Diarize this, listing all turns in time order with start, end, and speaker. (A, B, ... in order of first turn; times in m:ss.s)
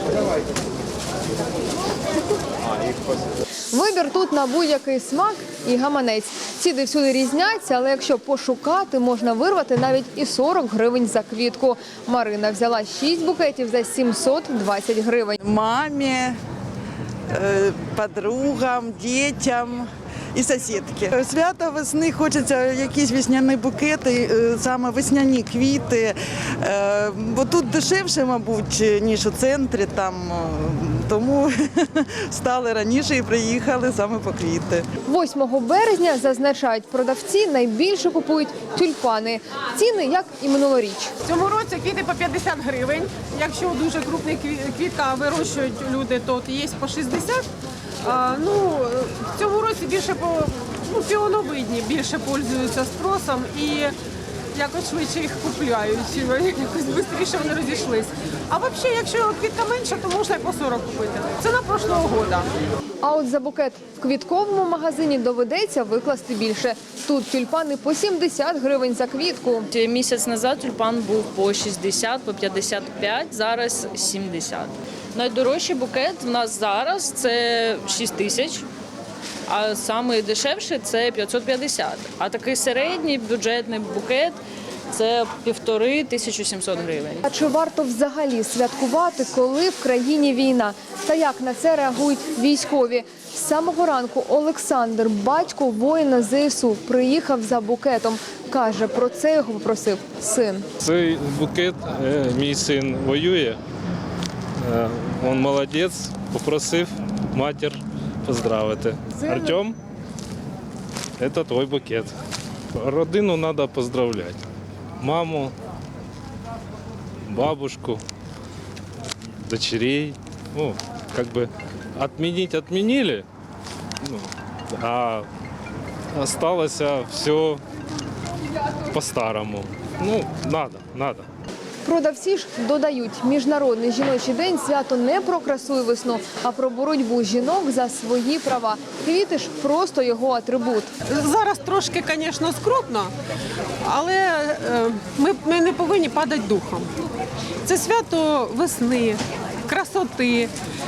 0:03.7-0:15.4 A
0:15.4-0:16.4 B
0:17.3-0:34.8 B
0:35.1-0:41.1 A
0:41.2-0:47.4 C
0:48.0-0:53.9 C
0:54.6-1:02.5 C
1:03.0-1:09.7 A
1:09.7-1:18.7 D
1:19.5-1:24.4 D
1:24.9-1:27.3 D
1:27.3-1:40.7 A
1:40.8-1:43.6 E
1:44.6-1:49.8 E
1:51.2-1:52.1 E
1:52.8-1:54.4 E
1:55.0-1:55.5 E
1:57.3-1:58.0 E
1:59.4-2:03.2 E
2:04.0-2:05.3 E
2:06.2-2:07.6 E
2:08.9-2:11.3 E
2:11.8-2:20.9 A
2:21.1-2:23.1 C
2:23.8-2:26.9 C
2:27.6-2:30.5 C